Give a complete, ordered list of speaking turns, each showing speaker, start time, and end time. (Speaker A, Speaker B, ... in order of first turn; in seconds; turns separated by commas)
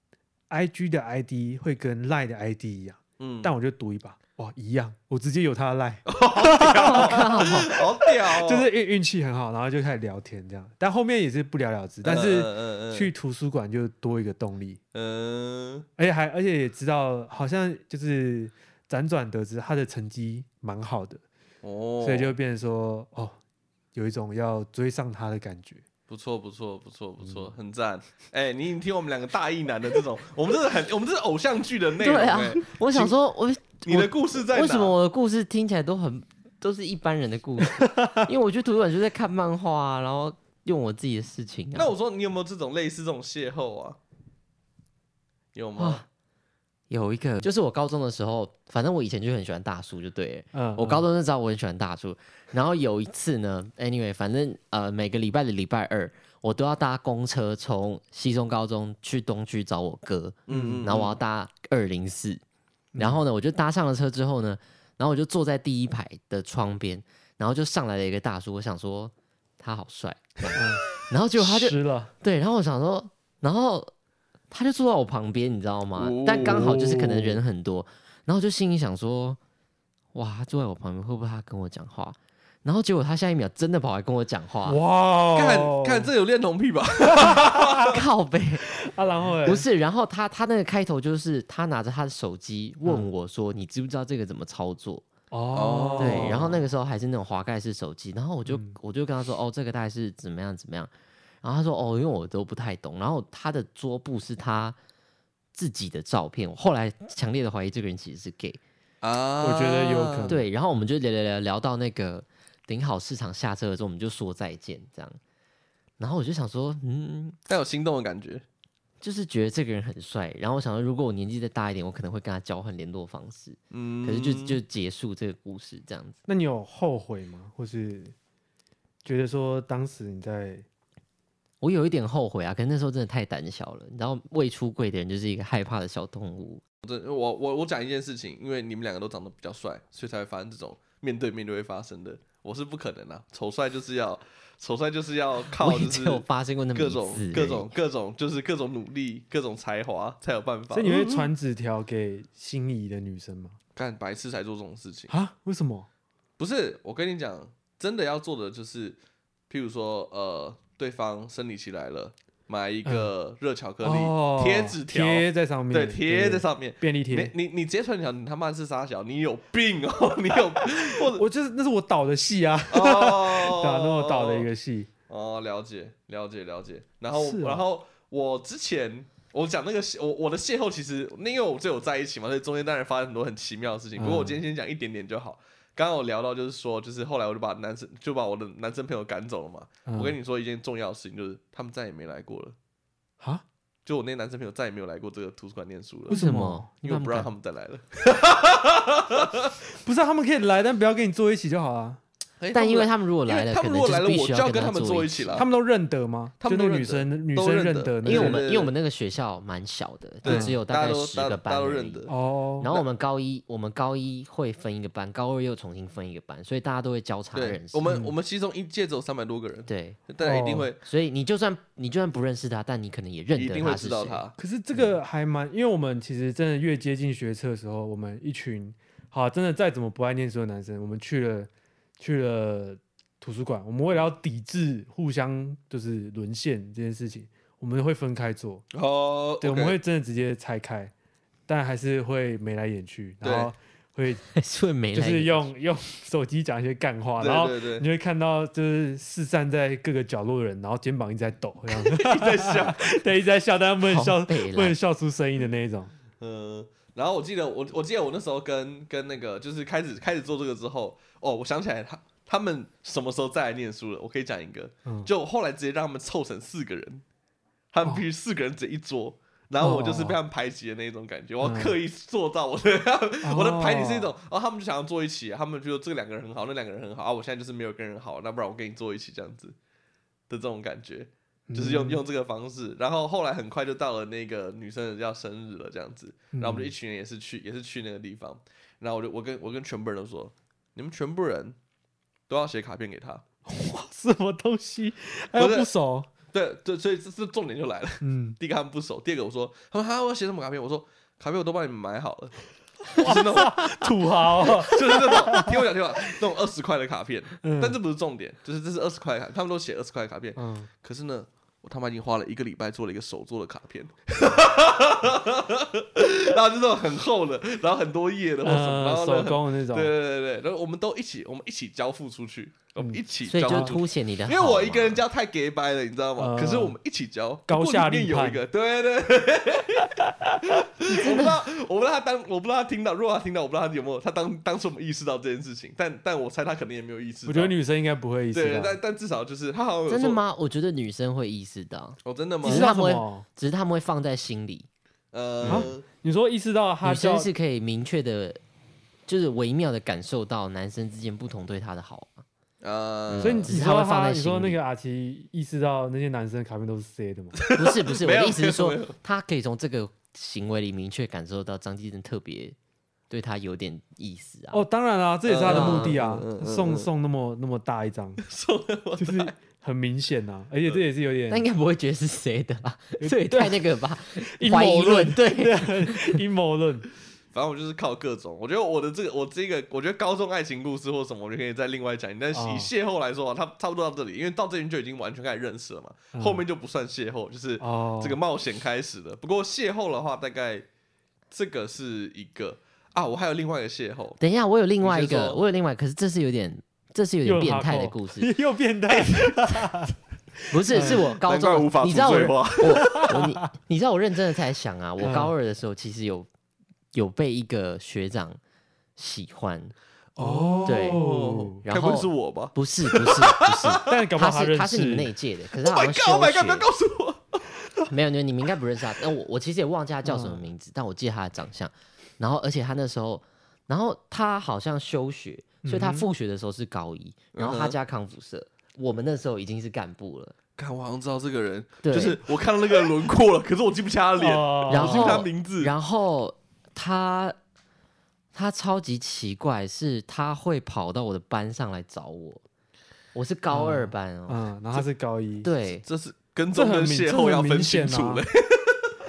Speaker A: 0.5-14.8, Speaker B: 3.2-3.5, Speaker B: 6.1-8.7, Speaker C: 6.8-7.8, Speaker B: 12.0-13.1, Speaker B: 14.9-15.9, Speaker A: 16.0-21.2, Speaker B: 21.6-22.4, Speaker A: 22.0-23.4, Speaker A: 23.9-25.9, Speaker B: 26.1-33.1, Speaker C: 32.0-41.9, Speaker B: 33.8-35.0, Speaker A: 37.7-38.3, Speaker B: 41.8-44.0, Speaker B: 45.5-46.0, Speaker C: 45.8-46.0, Speaker C: 46.9-62.4, Speaker A: 50.5-51.1, Speaker B: 60.5-61.2, Speaker A: 60.5-60.9, Speaker A: 62.9-63.2, Speaker C: 63.0-73.9, Speaker A: 70.5-70.8, Speaker A: 71.4-72.1, Speaker C: 74.5-79.4, Speaker B: 76.0-76.8, Speaker A: 76.5-77.4, Speaker C: 80.1-84.8, Speaker A: 84.7-86.1, Speaker B: 85.3-88.0, Speaker A: 87.1-87.9, Speaker C: 87.9-88.7, Speaker A: 88.7-89.7, Speaker C: 89.5-95.1, Speaker A: 95.3-96.6, Speaker B: 95.5-96.5, Speaker C: 96.0-100.9, Speaker A: 98.5-98.8, Speaker C: 101.4-104.8, Speaker C: 105.5-108.6, Speaker B: 109.0-110.4, Speaker A: 109.4-110.5, Speaker C: 110.3-115.2, Speaker C: 116.0-117.4, Speaker B: 117.5-118.4, Speaker C: 119.0-126.2, Speaker B: 123.7-124.6, Speaker A: 126.3-128.2, Speaker A: 129.0-130.7, Speaker C: 131.6-136.6, Speaker B: 136.8-151.3, Speaker C: 145.6-147.7, Speaker A: 150.7-153.6, Speaker B: 153.8-155.1, Speaker A: 155.1-155.9, Speaker B: 156.4-159.0, Speaker B: 159.5-171.2, Speaker A: 162.8-163.1, Speaker A: 163.8-167.3, Speaker A: 171.0-174.9, Speaker B: 172.7-174.5, Speaker B: 175.1-192.6, Speaker A: 177.1-177.6, Speaker A: 184.0-184.4, Speaker A: 189.9-190.2, Speaker A: 193.2-193.4, Speaker B: 193.9-196.2, Speaker C: 196.1-197.3, Speaker A: 196.1-196.7, Speaker B: 196.8-199.5, Speaker A: 199.8-202.0, Speaker B: 202.4-205.5, Speaker C: 202.5-205.3, Speaker A: 205.3-208.4, Speaker B: 206.4-208.7, Speaker C: 208.1-217.9, Speaker B: 210.2-212.1, Speaker A: 210.2-210.5, Speaker A: 212.1-212.7, Speaker B: 217.3-220.8, Speaker A: 217.8-218.1, Speaker C: 219.7-220.0, Speaker A: 220.2-220.7, Speaker C: 220.8-224.2, Speaker B: 223.4-224.4, Speaker A: 224.4-238.7, Speaker B: 238.7-239.8, Speaker A: 239.4-240.9, Speaker A: 241.5-244.2, Speaker B: 243.2-243.5, Speaker C: 244.3-245.5, Speaker A: 244.9-255.9, Speaker B: 247.2-247.9, Speaker B: 251.8-252.8, Speaker C: 253.8-254.8, Speaker B: 256.2-267.0, Speaker B: 267.7-279.6, Speaker A: 269.6-270.2, Speaker A: 271.4-271.8, Speaker A: 273.2-274.1, Speaker B: 280.3-291.6, Speaker A: 281.5-282.0, Speaker A: 286.3-286.7, Speaker B: 292.3-293.2, Speaker A: 293.5-296.1, Speaker B: 295.4-295.7, Speaker B: 296.3-337.5, Speaker A: 298.0-298.4, Speaker A: 302.9-305.7, Speaker A: 307.4-307.8, Speaker A: 310.4-310.7, Speaker A: 318.4-319.9, Speaker A: 322.8-323.8, Speaker C: 323.3-325.0, Speaker A: 326.2-326.8, Speaker A: 327.5-328.4, Speaker A: 330.0-331.2, Speaker C: 330.9-331.4, Speaker A: 337.3-338.8, Speaker B: 338.3-340.2, Speaker C: 339.9-344.7, Speaker B: 342.0-342.7, Speaker A: 342.4-343.2, Speaker B: 345.1-345.9, Speaker C: 345.4-345.7, Speaker A: 345.5-347.3, Speaker C: 346.8-348.4, Speaker C: 349.1-352.2, Speaker B: 352.6-353.5, Speaker C: 353.1-354.6, Speaker A: 353.2-357.4, Speaker B: 357.4-359.0, Speaker C: 357.5-362.6, Speaker C: 363.1-364.6, Speaker A: 364.5-368.2, Speaker B: 365.3-366.9, Speaker C: 365.5-366.0, Speaker B: 368.3-369.3, Speaker A: 369.0-371.4, Speaker C: 371.3-376.2, Speaker A: 373.0-376.9, Speaker B: 377.3-390.7, Speaker A: 382.3-382.7, Speaker A: 386.1-386.4, Speaker A: 387.6-388.2, Speaker B: 391.3-394.2, Speaker C: 394.2-398.3, Speaker B: 394.8-395.4, Speaker A: 397.2-401.1, Speaker B: 399.1-399.4, Speaker C: 400.5-406.3, Speaker B: 400.7-403.1, Speaker A: 401.9-403.4, Speaker A: 405.0-405.3, Speaker C: 406.9-408.4, Speaker C: 409.0-409.8, Speaker A: 410.2-411.6, Speaker B: 410.2-414.0, Speaker C: 410.6-411.0, Speaker C: 411.6-416.7, Speaker A: 413.9-415.1, Speaker B: 415.6-417.5, Speaker C: 417.9-430.3, Speaker A: 420.1-420.4, Speaker A: 425.6-426.1, Speaker B: 427.4-427.8, Speaker B: 430.6-435.7, Speaker C: 431.9-432.2, Speaker A: 434.2-435.3, Speaker C: 434.7-437.4, Speaker C: 438.3-442.4, Speaker C: 443.1-444.4, Speaker A: 443.5-445.5, Speaker C: 445.4-445.9, Speaker B: 445.9-448.9, Speaker A: 446.5-448.2